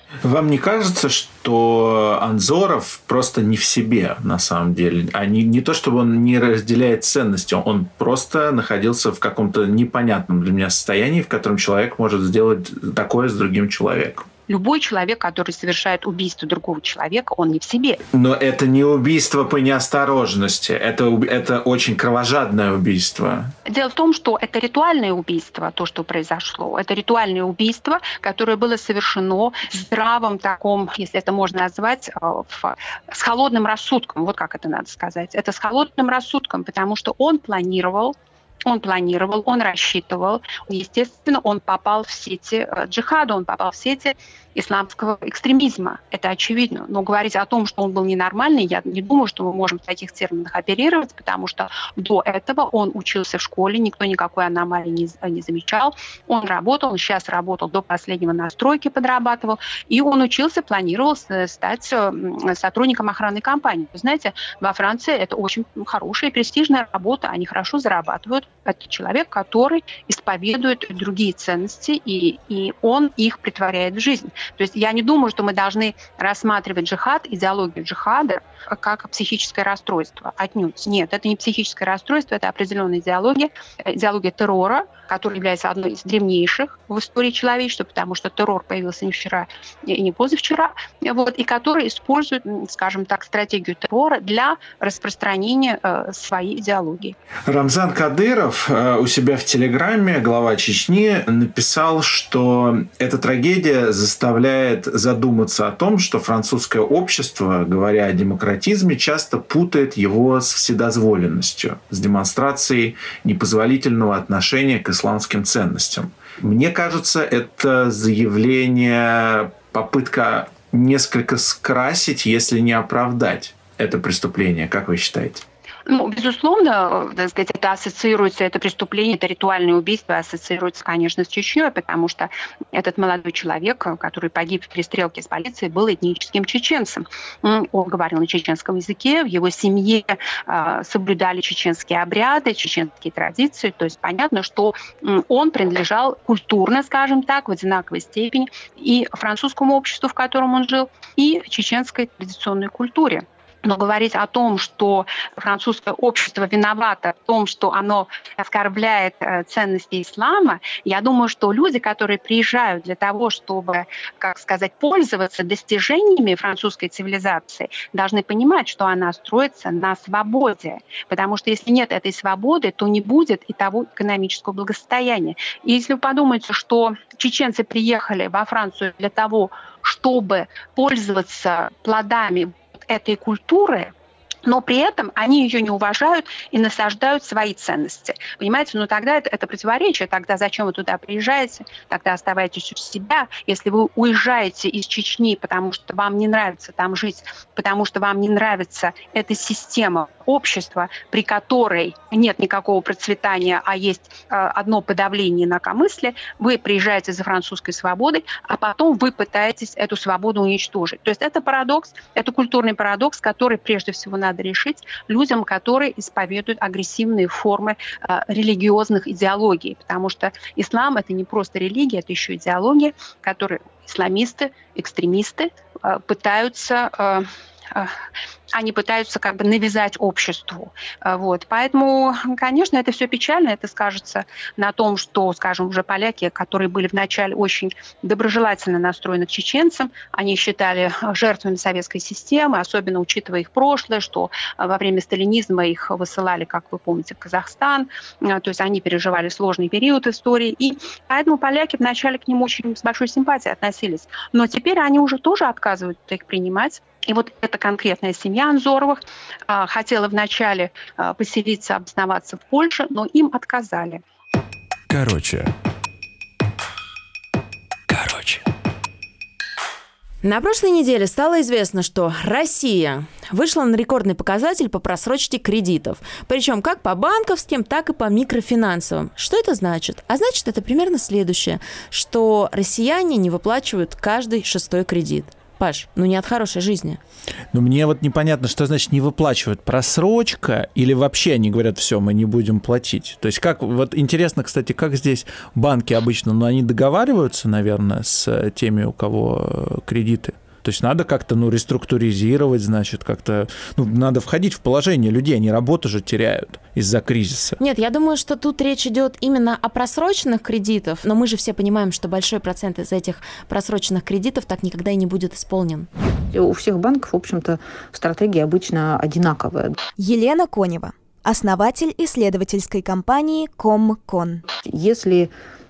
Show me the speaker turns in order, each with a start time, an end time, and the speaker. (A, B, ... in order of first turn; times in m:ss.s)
0:00.2-0:14.3 A
0:14.5-0:18.0 B
0:18.1-0:23.5 A
0:23.7-1:37.2 B
1:37.5-2:05.4 A
2:05.9-3:03.9 B
3:04.4-3:47.9 B
3:48.5-4:24.0 B
4:30.2-4:47.0 C
4:47.5-5:07.6 A
5:07.6-5:15.9 C
5:16.3-5:19.8 D
5:20.0-5:24.4 E
5:24.6-5:25.3 D